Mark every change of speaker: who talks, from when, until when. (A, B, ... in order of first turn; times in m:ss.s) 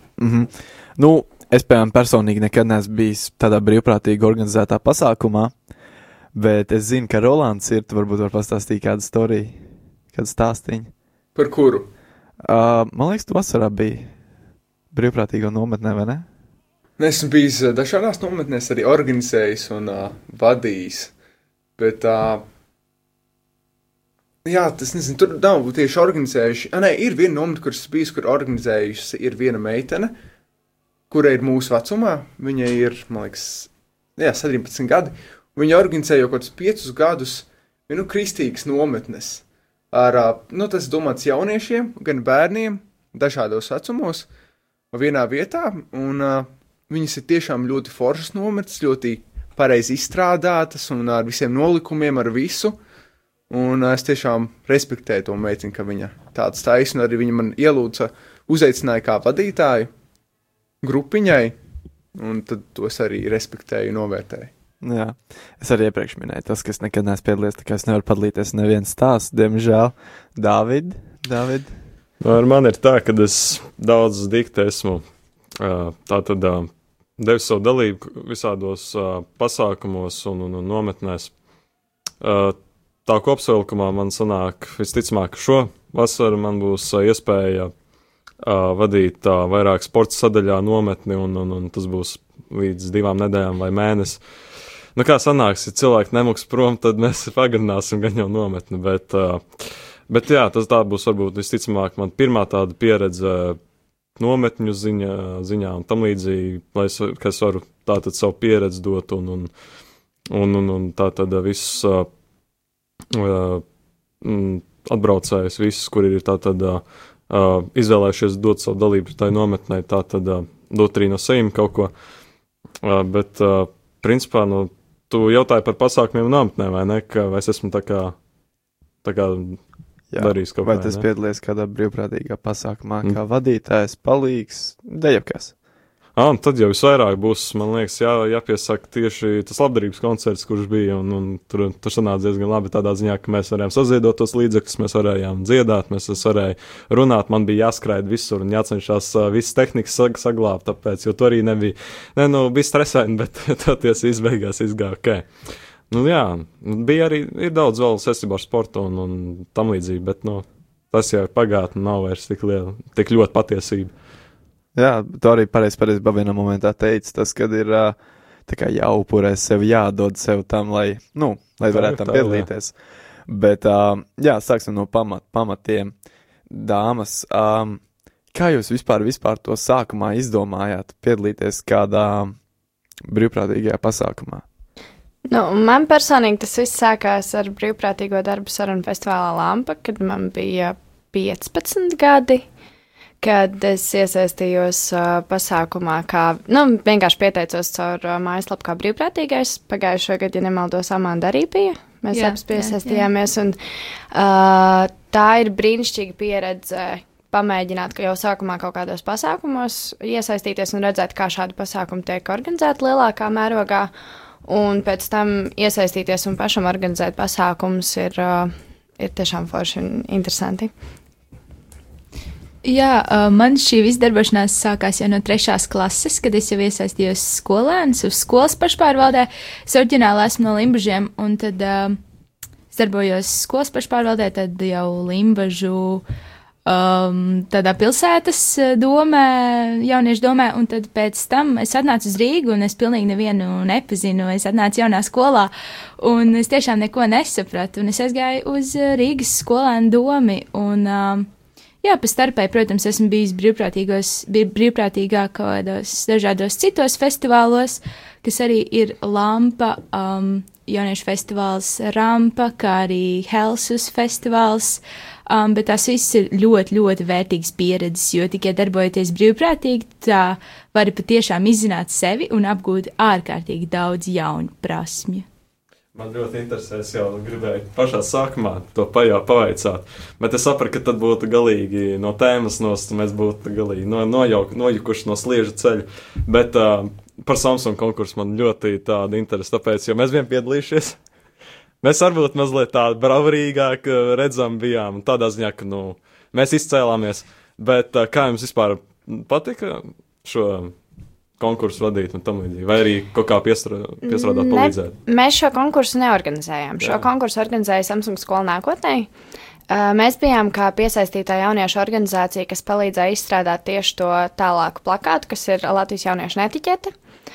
0:00.2-0:05.5 A
0:06.3-0:09.6 A
0:10.1-0:10.9 A
0:11.4-0:11.9 B
0:12.4-0:14.1 A
0:14.9-0:16.3 A
0:17.0-0:21.1 B
0:21.8-0:22.4 B
0:24.4-0:30.1 B
0:31.1-0:44.3 B
0:44.9-0:52.8 B
0:53.5-0:59.9 B
1:00.8-1:01.6 B
1:02.2-1:04.5 B
1:04.8-1:11.7 A
1:12.2-1:15.0 C
1:15.6-1:21.3 C
1:22.2-1:27.7 C
1:28.4-1:34.2 C
1:35.0-1:43.6 C
1:44.2-1:49.5 C
1:50.3-1:52.1 C
1:53.1-1:53.6 C
1:54.2-2:01.9 C
2:02.8-2:08.1 C
2:09.0-2:09.6 C
2:10.1-2:15.5 A
2:10.2-2:11.0 C
2:16.2-2:35.3 C
2:35.9-2:43.9 C
2:44.8-2:48.0 A
2:48.5-2:52.7 A
2:51.6-2:52.5 C
2:53.3-2:55.9 A
2:56.5-2:57.8 A
2:58.3-3:02.4 A
3:03.1-3:04.4 A
3:05.3-3:12.4 D
3:13.2-3:23.6 D
3:22.1-3:23.1 E
3:24.1-3:33.9 D
3:34.5-3:40.7 D
3:42.6-3:52.0 E
3:52.7-3:56.0 E
3:56.7-4:11.3 E
4:11.8-4:35.3 E
4:35.9-4:51.0 C
4:51.8-5:00.8 C
5:01.4-5:05.0 C
5:04.1-5:09.1 D
5:06.8-5:07.1 C
5:09.7-5:16.9 D